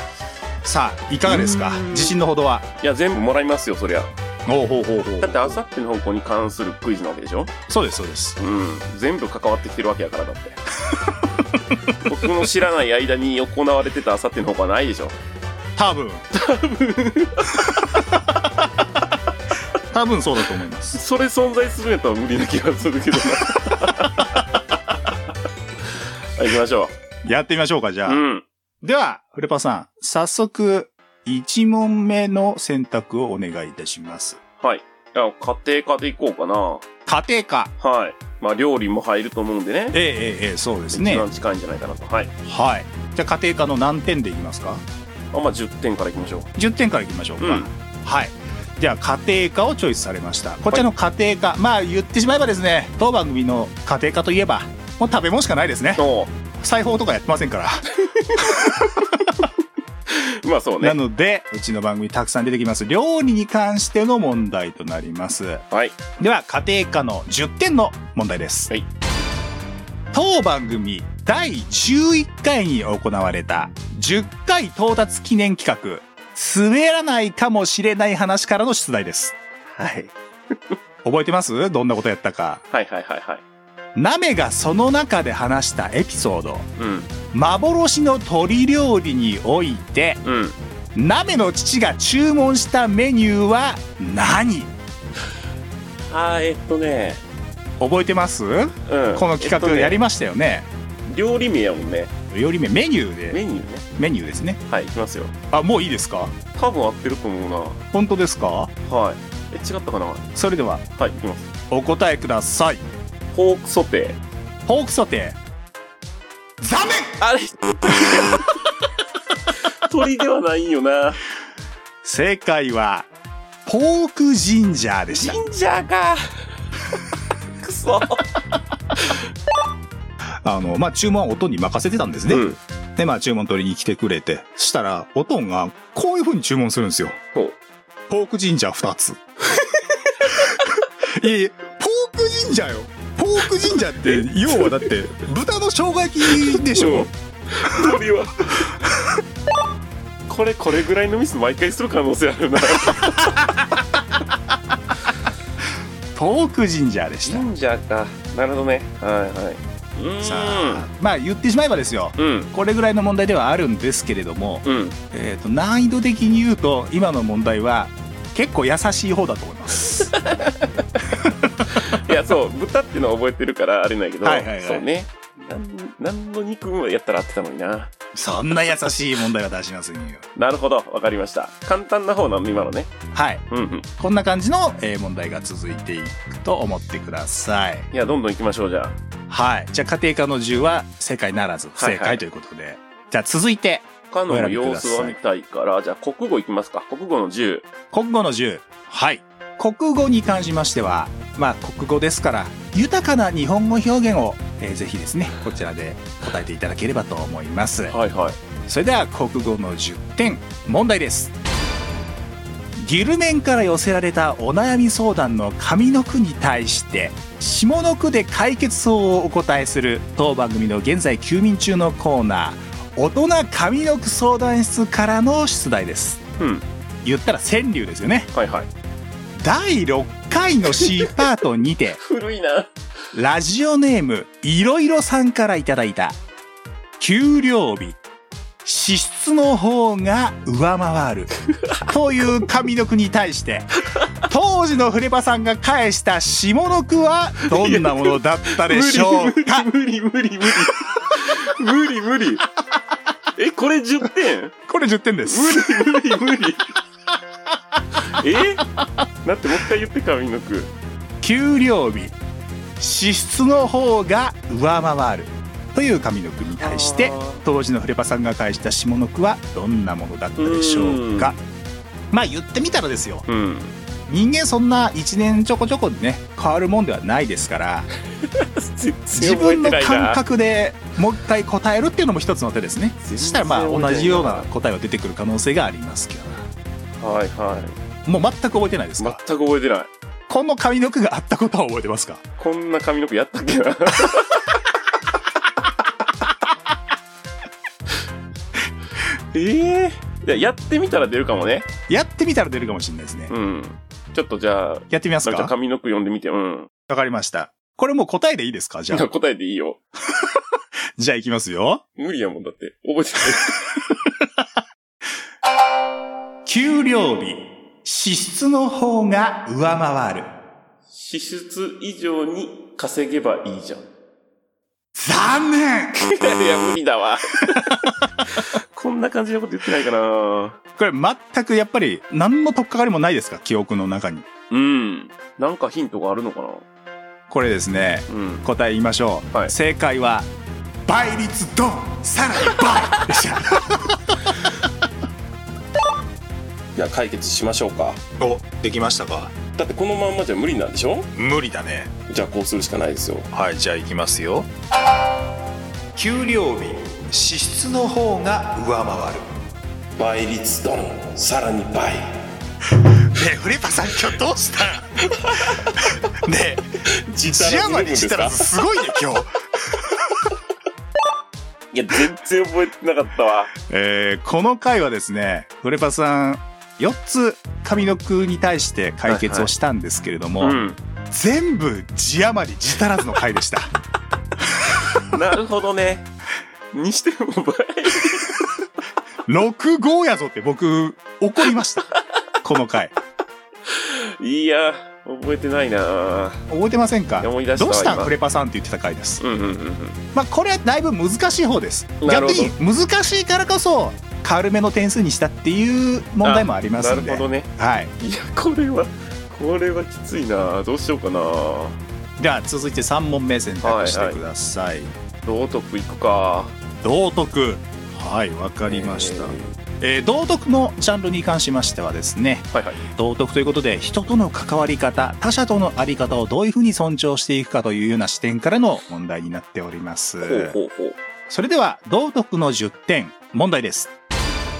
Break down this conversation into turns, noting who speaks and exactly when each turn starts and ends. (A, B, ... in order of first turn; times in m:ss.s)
0:00.6-0:02.7 A
0:01.2-0:02.2 B
0:02.8-0:04.1 B
0:04.4-0:05.6 A
0:05.2-0:07.5 B
0:07.7-0:08.4 A
0:08.4-0:10.6 B
0:12.0-0:15.2 B
0:15.8-0:16.2 A
0:16.3-0:17.6 B
0:19.9-0:21.0 A
0:20.9-0:24.4 B
0:26.4-0:26.9 B
0:27.2-0:28.2 A
0:28.0-0:28.4 B
0:28.8-0:34.4 A
0:34.6-0:36.8 B
0:37.0-0:37.7 A
0:37.8-0:40.0 B
0:39.9-0:41.2 A
0:40.9-0:42.3 B
0:42.4-0:44.8 A
0:45.3-0:46.5 B
0:46.6-0:59.1 A
0:47.4-0:47.7 B
0:56.0-0:56.3 B
1:00.1-1:01.0 B
1:00.8-1:05.6 A
1:05.7-1:06.0 B
1:06.2-1:08.7 A
1:10.1-1:20.1 A
1:21.0-1:22.6 A
1:22.7-1:23.4 B
1:24.0-1:26.7 A
1:26.8-1:27.1 B
1:27.3-1:30.2 A
1:30.2-1:30.6 B
1:30.9-1:34.7 A
1:36.1-1:37.2 B
1:37.8-1:40.7 A
1:38.9-1:40.0 B
1:41.1-1:42.1 B
1:42.3-1:43.4 A
1:43.3-1:43.8 B
1:44.0-1:44.6 A
1:44.7-1:45.3 B
1:45.5-1:46.3 A
1:46.5-1:47.8 B
1:47.9-1:48.7 A
1:48.8-1:50.2 B
1:50.3-1:50.8 A
1:51.0-1:51.5 B
1:51.7-1:52.8 A
1:53.3-1:54.2 B
1:54.6-1:55.4 A
1:56.6-1:57.2 A
1:57.2-1:58.5 B
1:59.8-2:01.2 B
2:02.0-2:03.1 A
2:03.6-2:05.4 A
2:05.1-2:06.3 B
2:07.6-2:08.3 B
2:10.4-2:17.2 A
2:12.3-2:12.6 B
2:18.1-2:19.2 A
2:20.3-2:27.1 A
2:26.3-2:28.7 B
2:30.3-2:33.3 B
2:32.9-2:33.4 A
2:36.1-2:37.5 A
2:37.2-2:40.8 B
2:40.2-2:50.1 A
2:42.2-2:42.5 B
2:44.6-2:45.0 B
2:50.1-2:50.7 B
2:51.1-2:51.8 A
2:51.7-2:57.9 B
2:54.2-2:54.8 A
2:58.1-3:00.2 A
3:00.4-3:02.9 B
3:03.1-3:03.4 A
3:03.5-3:03.8 B
3:04.0-3:07.9 A
3:07.9-3:09.0 B
3:09.3-3:15.2 A
3:11.8-3:12.2 B
3:14.1-3:17.6 B
3:17.9-3:27.9 A
3:27.9-3:28.4 B
3:28.7-3:31.3 A
3:32.8-3:46.2 A
3:46.4-3:46.6 B
3:47.0-3:48.3 A
3:48.3-3:48.7 B
3:49.4-3:52.0 A
3:52.0-3:52.7 B
3:53.1-3:56.2 A
3:57.0-3:58.0 A
3:58.6-4:09.7 A
4:07.5-4:12.4 B
4:13.4-4:14.5 B
4:14.7-4:16.0 A
4:15.3-4:16.6 B
4:18.0-4:18.7 B
4:19.2-4:20.7 B
4:21.2-4:22.2 A
4:22.8-4:31.4 A
4:26.6-4:27.4 B
4:30.4-4:31.4 B
4:32.1-4:33.2 A
4:33.3-4:33.7 B
4:34.1-4:37.9 A
4:38.3-4:40.2 B
4:39.1-4:46.5 A
4:43.0-4:44.5 B
4:47.0-4:47.8 B
4:48.0-4:49.2 A
4:49.0-4:49.9 B
4:50.3-4:52.2 A
4:52.4-4:54.5 B
4:59.3-5:01.7 B
5:01.9-5:03.3 A
5:03.3-5:06.7 B
5:04.9-5:05.5 A
5:06.9-5:09.1 A
5:08.9-5:09.8 B
5:11.0-5:11.8 A
5:12.0-5:13.6 B
5:16.4-5:20.3 A
5:20.9-5:23.8 B
5:24.9-5:26.0 A
5:26.0-5:27.6 B
5:28.3-5:30.6 B
5:30.8-5:34.2 A
5:34.5-5:36.6 B
5:37.3-5:40.3 A
5:38.1-5:38.4 B
5:40.8-5:44.3 A
5:46.8-5:48.0 B
5:48.2-5:49.3 A
5:49.6-5:51.1 B
5:51.1-5:51.9 A
5:52.1-5:53.3 B
5:53.3-5:54.5 A
5:55.9-5:59.3 A
6:00.0-6:02.0 B
6:03.1-6:05.0 A
6:05.2-6:05.6 B
6:05.8-6:06.6 A
6:06.9-6:08.5 B
6:07.2-6:09.8 A
6:11.7-6:13.5 B
6:13.7-6:20.6 A
6:19.0-6:19.5 B
6:20.4-6:20.8 B
6:21.1-6:23.7 A
6:25.0-6:26.1 B
6:26.7-6:28.3 B
6:29.3-6:31.9 A
6:32.4-6:32.9 A
6:33.7-6:36.4 B
6:36.5-6:39.2 A
6:37.2-6:38.1 B
6:39.2-6:40.0 B
6:40.1-6:47.9 A
6:42.0-6:42.5 B
6:46.2-6:51.8 B
6:52.2-6:54.9 A
6:53.6-6:54.2 B
6:55.2-6:56.5 B
6:56.8-7:10.5 A
6:58.6-6:59.5 B
7:02.5-7:02.8 B
7:10.2-7:11.0 B
7:11.3-7:13.9 A